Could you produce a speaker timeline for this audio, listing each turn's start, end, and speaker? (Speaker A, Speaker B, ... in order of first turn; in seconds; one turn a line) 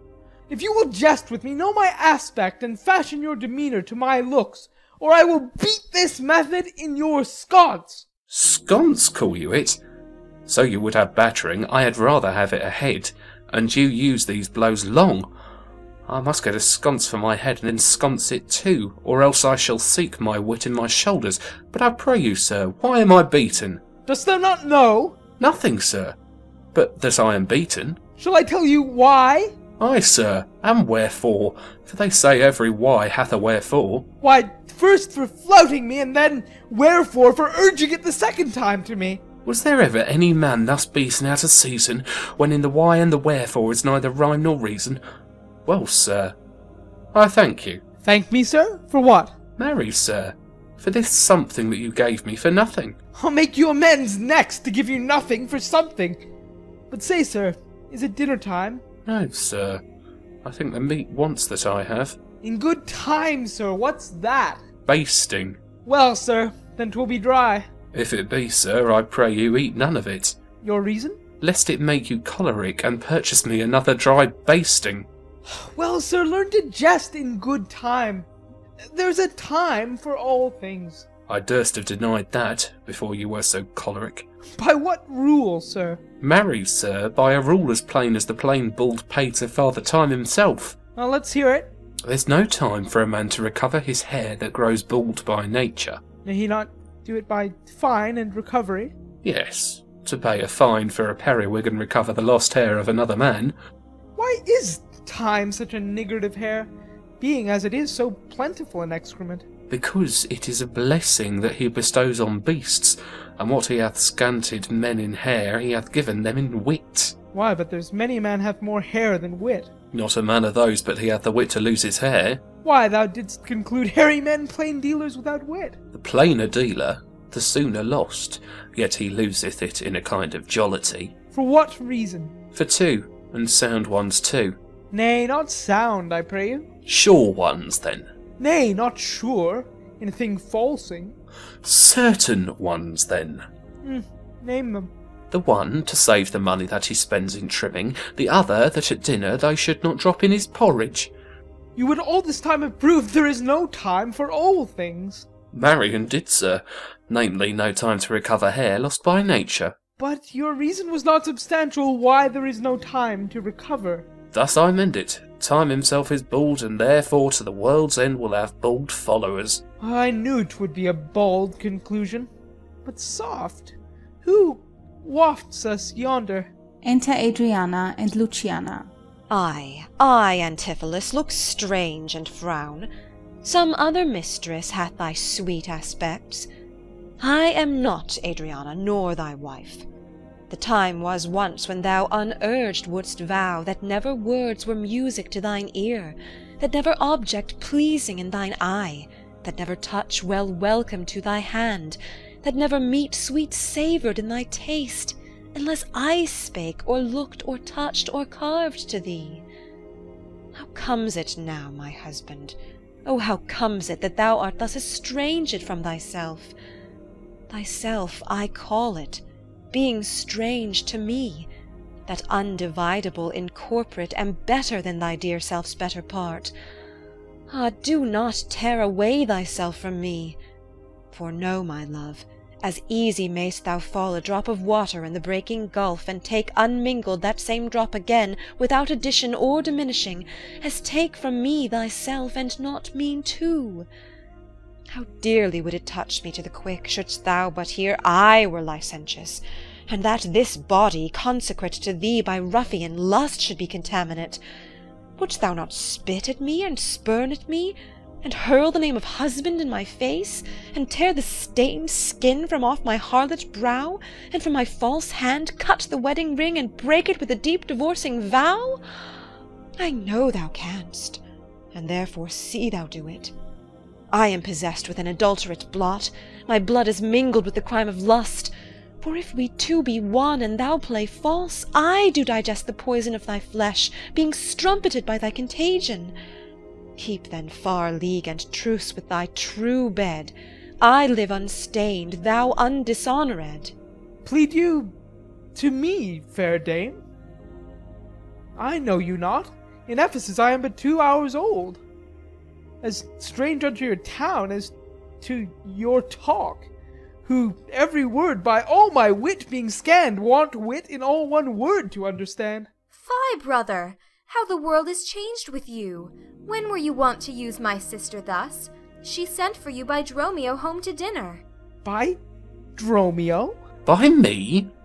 Speaker A: 0.5-8.1
Speaker B: 8.3-9.8
Speaker B: 10.4-15.3
Speaker B: 16.1-23.8
Speaker A: 24.1-25.2
Speaker B: 25.4-26.2
Speaker B: 26.7-28.0
Speaker A: 28.2-29.5
Speaker B: 29.8-34.1
Speaker A: 34.2-39.2
Speaker B: 39.4-45.0
Speaker B: 45.6-46.4
Speaker B: 47.1-47.8
Speaker A: 48.0-49.3
Speaker B: 49.6-53.0
Speaker A: 53.1-56.2
Speaker A: 56.9-58.8
Speaker B: 59.0-59.8
Speaker B: 60.4-62.2
Speaker A: 62.4-64.6
Speaker B: 64.8-65.6
Speaker A: 65.8-67.7
Speaker B: 67.9-70.4
Speaker A: 70.6-71.2
Speaker B: 71.4-75.1
Speaker A: 75.5-78.3
Speaker A: 78.9-81.0
Speaker B: 81.3-84.2
Speaker A: 84.6-86.0
Speaker B: 86.2-90.8
Speaker A: 91.0-91.7
Speaker B: 92.0-96.0
Speaker A: 96.2-98.9
Speaker B: 99.2-103.5
Speaker A: 104.2-109.4
Speaker B: 109.7-117.1
Speaker A: 117.3-119.7
Speaker B: 119.9-122.4
Speaker A: 122.6-125.8
Speaker B: 125.9-131.2
Speaker A: 131.3-132.3
Speaker B: 132.5-134.6
Speaker A: 134.9-136.6
Speaker B: 136.8-138.1
Speaker A: 138.4-141.1
Speaker B: 141.6-143.4
Speaker A: 143.8-144.9
Speaker B: 145.3-151.1
Speaker A: 151.8-155.3
Speaker B: 155.5-159.8
Speaker A: 160.0-164.1
Speaker B: 164.3-169.6
Speaker A: 169.8-172.3
Speaker A: 172.8-176.5
Speaker C: 176.8-178.9
Speaker D: 179.3-182.9
Speaker D: 183.4-186.5
Speaker D: 187.2-189.8
Speaker D: 190.5-209.4
Speaker D: 210.6-216.5
Speaker D: 217.5-221.5
Speaker D: 222.1-226.5
Speaker D: 227.5-230.4
Speaker D: 231.1-243.9
Speaker D: 244.9-254.4
Speaker D: 255.2-268.8
Speaker D: 269.8-271.2
Speaker D: 271.7-273.3
Speaker D: 274.1-286.1
Speaker D: 287.0-293.7
Speaker A: 294.2-294.9
Speaker A: 295.5-297.0
Speaker A: 298.6-301.8
Speaker A: 302.8-306.7
Speaker A: 307.2-312.7
Speaker E: 312.9-321.4
Speaker A: 321.8-322.2
Speaker A: 322.8-323.6
Speaker B: 323.9-324.7